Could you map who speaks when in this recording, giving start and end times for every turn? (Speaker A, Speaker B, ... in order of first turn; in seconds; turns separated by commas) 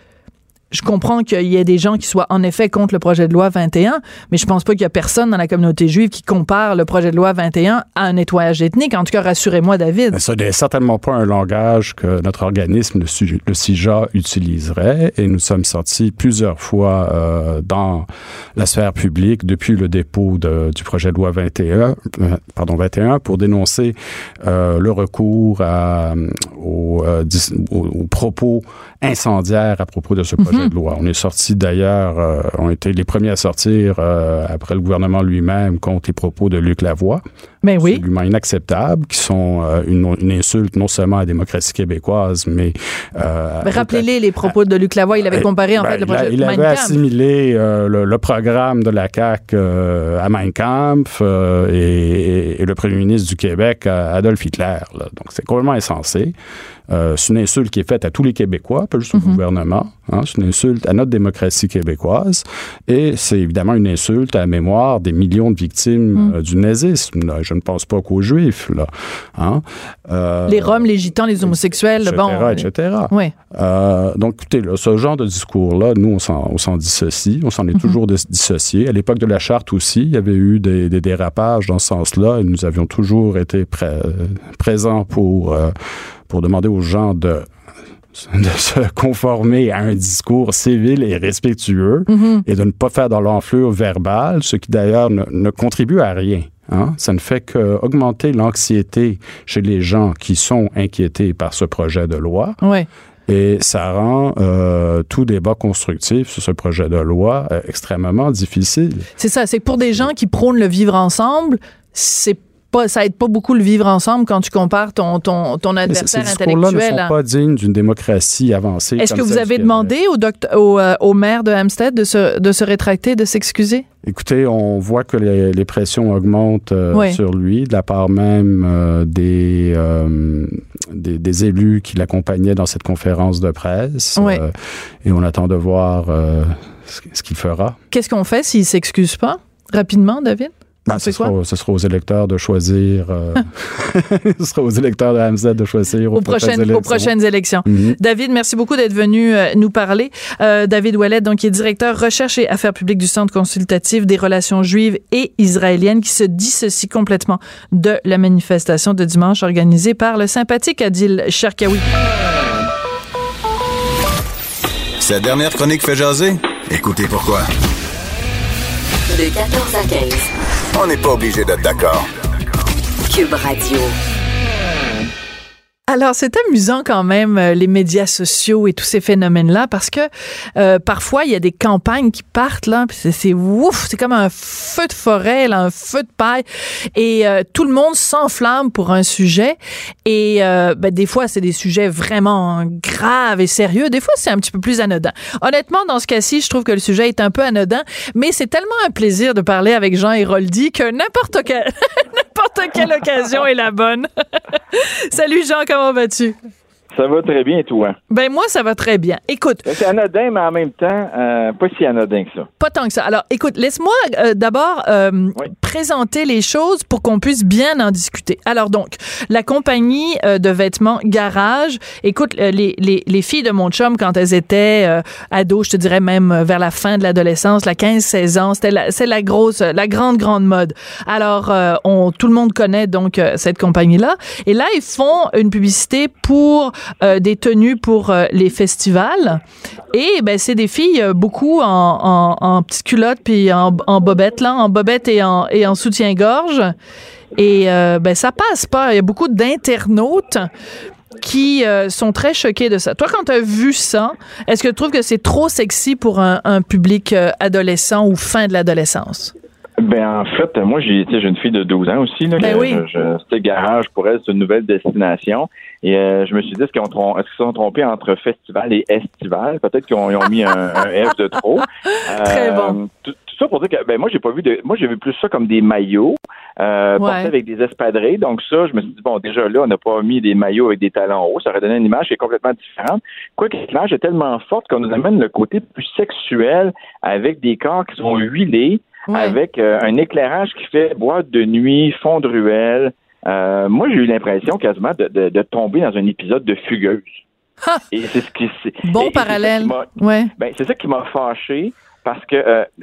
Speaker A: 0.7-10.2, Speaker B: 10.1-37.2, Speaker A: 30.4-30.7, Speaker A: 37.6-38.0, Speaker B: 37.8-44.0, Speaker A: 43.6-47.0, Speaker B: 45.3-56.3, Speaker B: 56.9-85.7, Speaker A: 59.1-59.4, Speaker A: 70.5-73.3, Speaker B: 86.3-87.5, Speaker B: 88.1-102.6, Speaker A: 92.1-92.4, Speaker A: 102.6-102.9, Speaker B: 103.3-109.1, Speaker A: 109.2-117.1, Speaker B: 115.9-119.9, Speaker A: 119.0-123.8, Speaker B: 124.0-134.5, Speaker B: 135.0-137.8, Speaker A: 137.9-141.3, Speaker B: 140.9-147.1, Speaker A: 146.1-161.9, Speaker B: 147.6-148.0, Speaker C: 165.0-167.5, Speaker D: 169.1-170.3, Speaker C: 170.7-172.1, Speaker D: 173.1-173.9, Speaker A: 175.9-186.4, Speaker A: 186.9-204.1, Speaker A: 204.7-206.3, Speaker E: 206.9-207.9, Speaker A: 208.1-209.7, Speaker E: 209.6-212.5, Speaker A: 212.6-239.4, Speaker A: 239.9-246.7, Speaker A: 247.3-250.5, Speaker A: 251.2-259.3, Speaker E: 259.8-297.2, Speaker A: 262.4-262.8, Speaker A: 271.9-272.8, Speaker A: 277.0-277.3, Speaker A: 289.1-289.4, Speaker E: 297.9-302.7, Speaker A: 298.8-300.3